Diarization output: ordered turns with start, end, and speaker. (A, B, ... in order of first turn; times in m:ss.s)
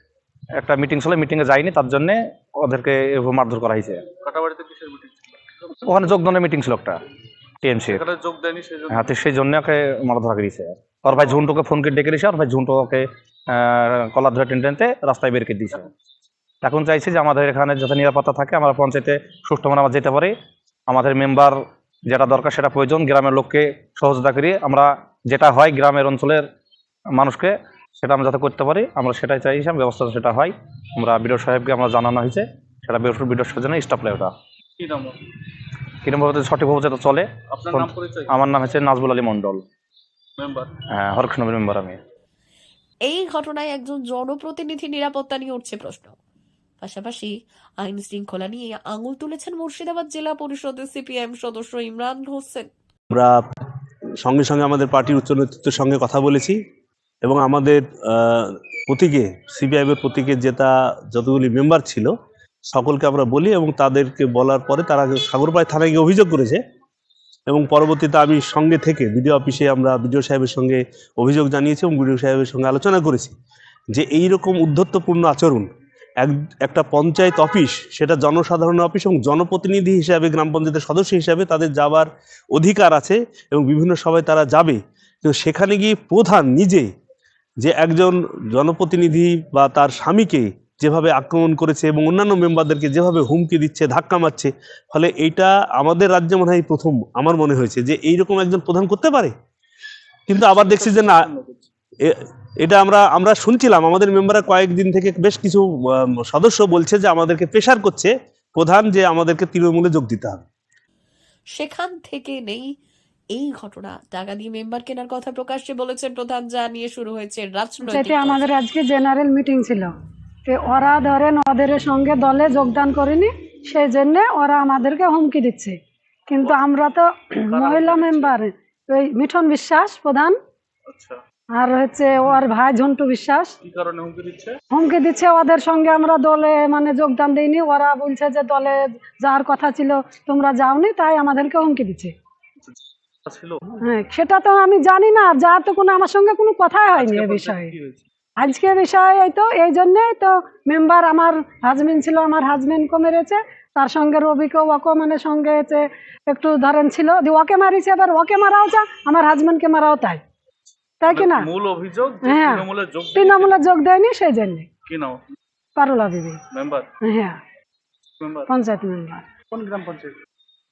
0:00.6-0:04.0 A
0:04.2-0:05.4 B
0:05.8-0:07.0 A
0:07.6-0:08.0 A
0:07.8-0:09.2 B
0:08.9-0:15.9 A
0:11.1-0:11.4 B
0:16.6-0:20.3 A
0:20.9-0:26.4 A
0:27.1-0:34.3 A
0:34.8-0:35.2 B
0:36.0-0:39.6 A
0:37.5-0:38.4 B
0:40.4-0:40.7 B
0:40.9-0:42.0 A
0:43.0-0:46.2 C
0:46.8-0:52.7 C
0:54.2-0:56.6 D
0:57.2-1:02.1 D
1:02.7-1:06.6 D
1:07.5-1:13.4 D
1:13.9-1:15.7 D
1:16.2-1:26.9 D
1:27.6-1:39.3 D
1:40.3-1:41.3 D
1:40.4-1:41.7 B
1:42.0-1:50.4 D
1:51.5-1:52.7 C
1:53.3-1:58.5 C
1:57.8-1:59.9 E
2:00.4-2:10.4 E
2:07.5-2:08.4 B
2:10.9-2:11.2 B
2:11.5-2:13.5 E
2:13.6-2:14.6 B
2:14.7-2:22.1 E
2:23.2-2:23.6 B
2:23.8-2:27.7 E
2:26.9-2:28.0 B
2:28.4-2:40.2 E
2:41.0-2:41.5 E
2:41.1-2:43.8 B
2:42.2-2:44.7 E
2:44.8-2:45.2 B
2:45.8-2:46.4 E
2:46.5-2:46.9 B
2:47.0-2:47.4 E
2:48.2-2:48.5 B
2:48.5-2:49.2 E
2:49.5-2:50.1 B